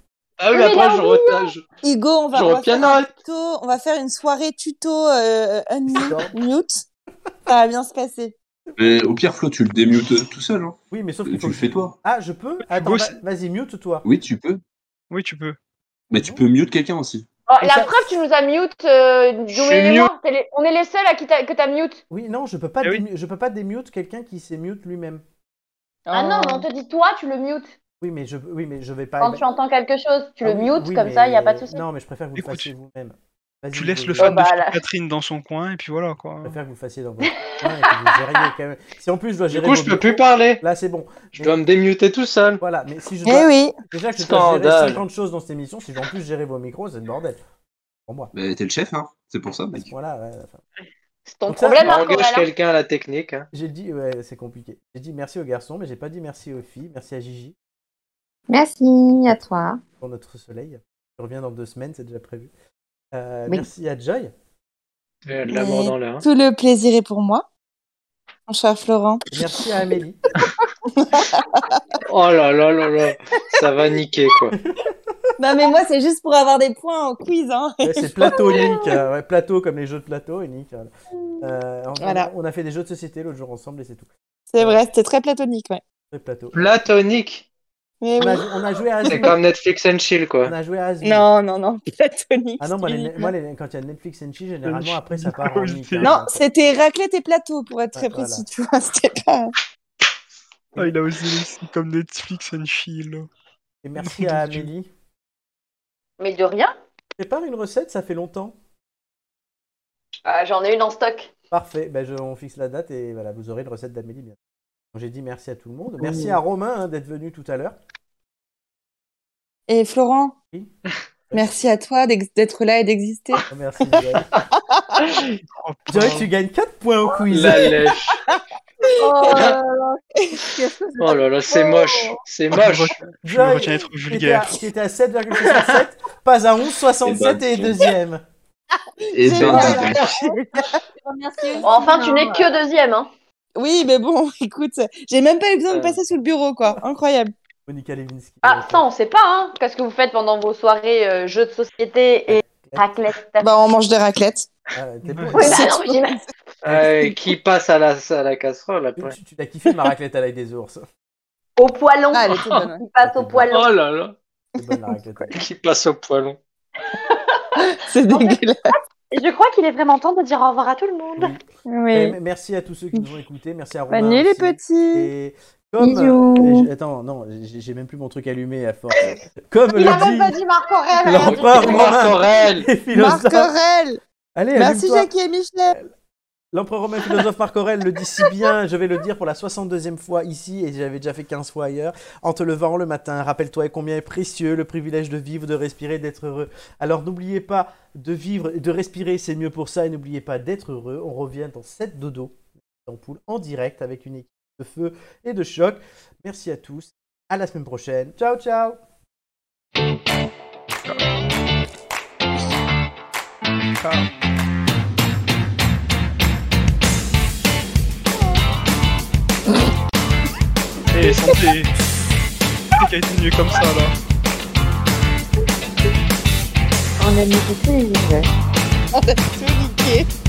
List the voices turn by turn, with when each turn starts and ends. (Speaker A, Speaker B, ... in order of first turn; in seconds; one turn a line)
Speaker A: 0.4-1.6
Speaker B: 0.5-1.5
Speaker C: 1.8-6.8
Speaker A: 2.3-3.2
Speaker D: 5.9-6.4
Speaker C: 7.5-8.3
Speaker E: 8.8-12.0
Speaker D: 10.9-14.1
Speaker F: 12.6-13.2
Speaker E: 14.0-14.6
Speaker F: 15.1-15.6
Speaker E: 16.1-17.3
Speaker B: 17.5-22.0
Speaker D: 17.6-18.0
Speaker D: 22.1-25.2
Speaker C: 26.1-26.7
Speaker B: 26.1-27.7
Speaker D: 28.0-29.4
Speaker B: 29.2-31.8
Speaker D: 30.4-34.4
Speaker F: 32.4-32.7
Speaker F: 33.7-36.6
Speaker B: 34.2-34.8
Speaker D: 36.4-41.6
Speaker A: 39.5-40.6
Speaker A: 41.4-42.6
Speaker D: 42.6-47.4
Speaker C: 43.2-43.8
Speaker A: 44.2-45.0
Speaker E: 48.3-49.9
Speaker D: 49.7-50.6
Speaker B: 51.3-52.5
Speaker D: 51.5-51.9
Speaker A: 51.8-53.5
Speaker D: 53.5-57.5
Speaker G: 58.5-59.8
Speaker D: 60.0-62.5
Speaker D: 63.1-64.3
Speaker A: 65.3-66.2
Speaker C: 65.5-67.5
Speaker C: 68.5-69.2
Speaker D: 69.3-70.2
Speaker C: 70.9-71.8
Speaker A: 72.1-74.6
Speaker D: 74.5-75.2
Speaker C: 75.4-78.9
Speaker D: 77.8-84.8
Speaker C: 82.0-82.3
Speaker C: 84.5-85.8
Speaker D: 86.1-86.7
Speaker A: 86.5-87.5
Speaker C: 88.0-89.3
Speaker D: 88.2-89.4
Speaker A: 89.1-90.5
Speaker D: 90.5-91.3
Speaker C: 91.0-93.3
Speaker D: 92.6-96.4
Speaker F: 94.7-96.1
Speaker C: 96.0-99.5
Speaker D: 98.0-98.5
Speaker F: 100.8-103.3
Speaker D: 103.8-104.9
Speaker F: 104.0-104.7
Speaker B: 106.2-106.7
Speaker D: 107.2-108.6
Speaker B: 110.3-111.3
Speaker D: 111.5-114.4
Speaker D: 114.9-117.8
Speaker G: 116.0-116.3
Speaker C: 119.7-120.3
Speaker C: 121.3-123.4
Speaker D: 123.5-124.3
Speaker C: 124.6-125.0
Speaker A: 125.0-125.3
Speaker F: 125.5-126.3
Speaker D: 125.9-127.8
Speaker A: 127.3-128.2
Speaker C: 128.1-129.5
Speaker B: 129.0-130.0
Speaker A: 129.3-129.6
Speaker C: 130.2-130.6
Speaker G: 130.5-131.1
Speaker A: 131.0-133.0
Speaker F: 132.5-134.5
Speaker D: 133.2-138.2
Speaker E: 137.0-137.8
Speaker C: 139.0-142.5
Speaker E: 139.1-140.1
Speaker A: 139.4-140.3
Speaker G: 141.5-142.2
Speaker B: 141.6-143.1
Speaker C: 143.6-147.3
Speaker A: 145.7-146.0
Speaker D: 147.7-148.8
Speaker B: 148.4-153.5
Speaker D: 152.3-152.9
Speaker C: 153.4-154.5
Speaker D: 154.8-155.6
Speaker F: 155.1-155.4
Speaker B: 155.3-156.2
Speaker C: 155.3-157.2
Speaker A: 156.6-159.1
Speaker D: 159.0-160.9
Speaker B: 161.6-163.7
Speaker C: 162.1-162.8
Speaker A: 162.4-162.6
Speaker D: 163.0-163.5
Speaker A: 163.5-164.2
Speaker D: 164.6-165.3
Speaker C: 164.6-164.9
Speaker A: 165.3-166.4
Speaker B: 166.9-167.5
Speaker C: 167.6-168.8
Speaker B: 168.1-168.4
Speaker B: 169.1-171.3
Speaker D: 171.2-180.4
Speaker C: 171.7-172.2
Speaker C: 173.9-175.1
Speaker G: 175.8-176.7
Speaker C: 179.7-181.8
Speaker B: 179.8-181.9
Speaker D: 181.1-183.5
Speaker A: 181.5-182.7
Speaker C: 182.9-184.0
Speaker D: 184.3-185.1
Speaker C: 184.6-185.8
Speaker D: 186.5-208.8
Speaker F: 213.8-214.1
Speaker C: 218.1-218.4
Speaker F: 220.9-221.8
Speaker F: 222.8-223.9
Speaker G: 227.0-228.3
Speaker C: 228.9-230.1